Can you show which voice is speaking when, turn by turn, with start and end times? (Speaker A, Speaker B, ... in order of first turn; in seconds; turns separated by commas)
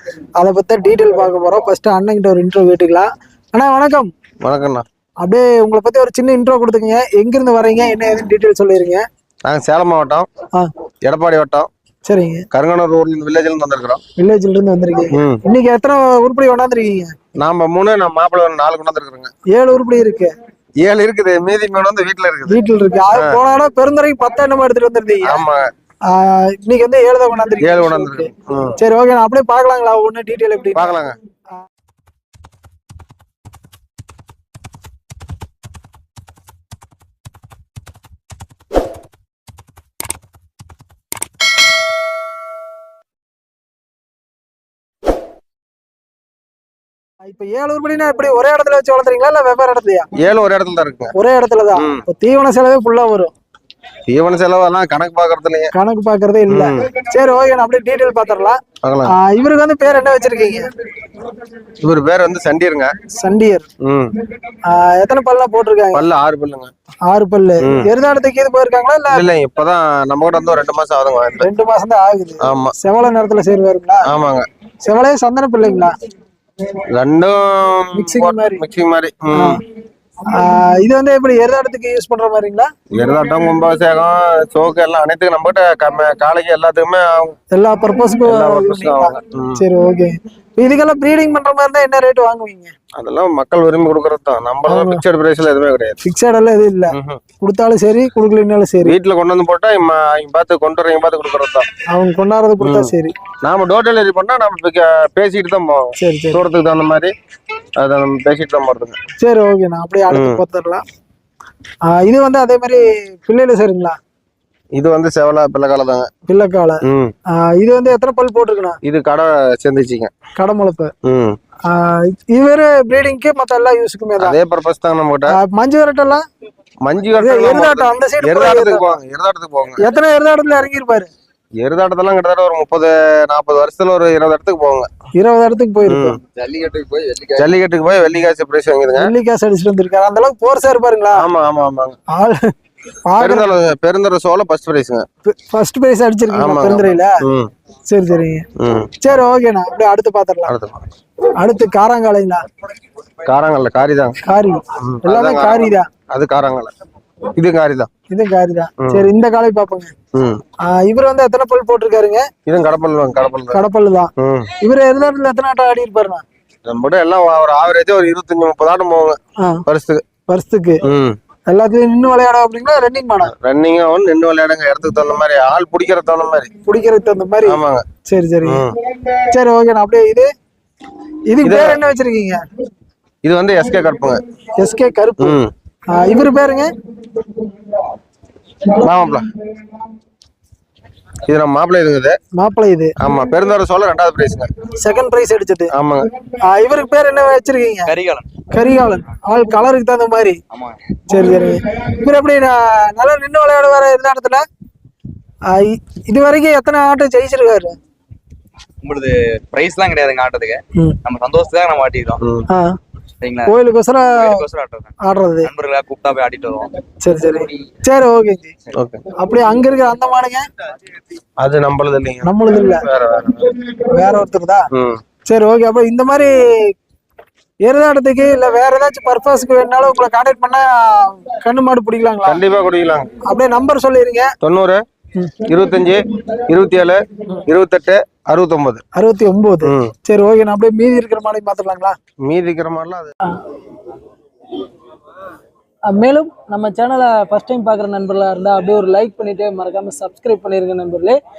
Speaker A: 0.4-4.1, Speaker B: 4.4-4.8, Speaker A: 5.2-9.0, Speaker B: 9.4-10.3, Speaker B: 11.0-11.7, Speaker A: 12.1-12.4, Speaker B: 12.5-14.0, Speaker A: 14.2-17.1, Speaker B: 15.1-15.4, Speaker B: 17.4-19.3, Speaker A: 19.5-20.3, Speaker B: 20.8-22.6, Speaker A: 22.5-25.4, Speaker B: 23.1-23.4, Speaker B: 25.2-25.7, Speaker A: 26.1-31.0, Speaker B: 27.6-28.8, Speaker B: 30.7-31.1, Speaker A: 47.2-50.1, Speaker B: 50.2-51.1, Speaker A: 51.1-53.3, Speaker B: 51.7-52.0, Speaker B: 54.1-55.7, Speaker A: 55.7-60.7, Speaker B: 56.5-56.9, Speaker B: 58.8-59.1, Speaker B: 61.8-62.9, Speaker A: 63.2-63.7, Speaker B: 63.8-64.1, Speaker A: 64.6-66.0, Speaker B: 65.9-66.7, Speaker A: 67.1-69.3, Speaker B: 67.6-67.9, Speaker B: 69.1-71.5, Speaker A: 71.4-74.1, Speaker B: 72.4-72.7, Speaker B: 74.0-74.5, Speaker A: 74.8-75.9, Speaker B: 76.9-79.6, Speaker A: 77.9-78.6, Speaker A: 79.3-79.6, Speaker A: 80.3-82.7, Speaker B: 82.9-87.3, Speaker A: 87.5-92.7, Speaker B: 88.2-89.6, Speaker B: 93.0-96.0, Speaker A: 94.7-95.0, Speaker A: 96.0-99.0, Speaker B: 96.9-97.2, Speaker B: 98.8-101.7, Speaker A: 101.9-103.1, Speaker B: 102.6-102.9, Speaker B: 103.4-107.1, Speaker A: 106.0-106.4, Speaker B: 107.8-109.0, Speaker A: 109.2-110.8, Speaker B: 110.1-110.4, Speaker A: 111.8-114.0, Speaker B: 114.7-116.1, Speaker A: 116.3-118.8, Speaker B: 116.8-117.1, Speaker B: 118.8-120.1, Speaker A: 120.3-120.9, Speaker B: 121.0-121.4, Speaker A: 121.7-124.3, Speaker B: 124.2-125.3, Speaker A: 125.3-126.2, Speaker B: 126.8-129.9, Speaker A: 127.2-128.9, Speaker A: 129.8-131.1, Speaker B: 131.6-134.9, Speaker A: 135.1-136.2, Speaker B: 135.9-136.2, Speaker C: 136.3-137.5, Speaker B: 137.4-139.1, Speaker A: 139.0-141.3, Speaker B: 141.2-142.0, Speaker A: 142.1-142.5, Speaker A: 143.1-143.5, Speaker B: 143.2-145.0, Speaker A: 145.2-147.2, Speaker B: 146.3-147.5, Speaker A: 147.9-148.5, Speaker B: 148.6-148.9, Speaker A: 149.0-150.5, Speaker B: 150.5-150.8, Speaker A: 151.4-152.4, Speaker B: 153.2-154.2, Speaker A: 154.2-155.9, Speaker B: 154.8-156.7, Speaker B: 157.3-157.9, Speaker A: 158.1-159.9, Speaker B: 158.8-159.1, Speaker B: 160.1-160.4, Speaker A: 160.6-162.3, Speaker B: 162.4-163.6, Speaker A: 163.5-166.2, Speaker B: 164.2-164.5, Speaker B: 166.7-170.0, Speaker A: 169.4-169.6, Speaker A: 170.3-170.8, Speaker B: 170.8-171.2, Speaker A: 171.5-173.3, Speaker B: 173.3-176.5, Speaker A: 176.6-178.7, Speaker B: 177.4-177.8, Speaker B: 178.4-178.8, Speaker A: 179.3-180.3, Speaker A: 181.3-182.4, Speaker B: 181.4-181.8, Speaker B: 183.2-184.2, Speaker A: 184.6-185.4, Speaker B: 185.2-185.5, Speaker A: 185.9-186.7, Speaker B: 188.7-189.3, Speaker B: 191.2-192.2, Speaker A: 192.3-192.9, Speaker B: 193.0-194.5, Speaker A: 194.8-195.7, Speaker B: 195.7-196.1, Speaker A: 196.3-197.9, Speaker C: 197.8-198.3, Speaker A: 198.5-200.4, Speaker C: 200.5-200.8, Speaker A: 201.1-204.4, Speaker A: 205.4-207.8, Speaker C: 208.8-212.2, Speaker B: 212.2-212.5, Speaker A: 212.5-212.8, Speaker C: 213.2-213.5, Speaker A: 213.4-214.4, Speaker C: 214.1-216.7, Speaker A: 215.0-215.5, Speaker A: 217.0-218.5, Speaker B: 218.7-219.0, Speaker A: 219.1-220.5, Speaker B: 221.4-223.5, Speaker A: 222.2-222.8, Speaker A: 223.7-224.7, Speaker B: 224.7-225.0, Speaker A: 225.2-226.7, Speaker A: 227.6-232.4, Speaker B: 232.2-233.1, Speaker A: 233.2-234.3, Speaker B: 234.4-234.8, Speaker B: 235.4-238.8, Speaker A: 238.9-241.9, Speaker B: 239.6-239.9, Speaker B: 242.2-243.1, Speaker A: 245.9-251.2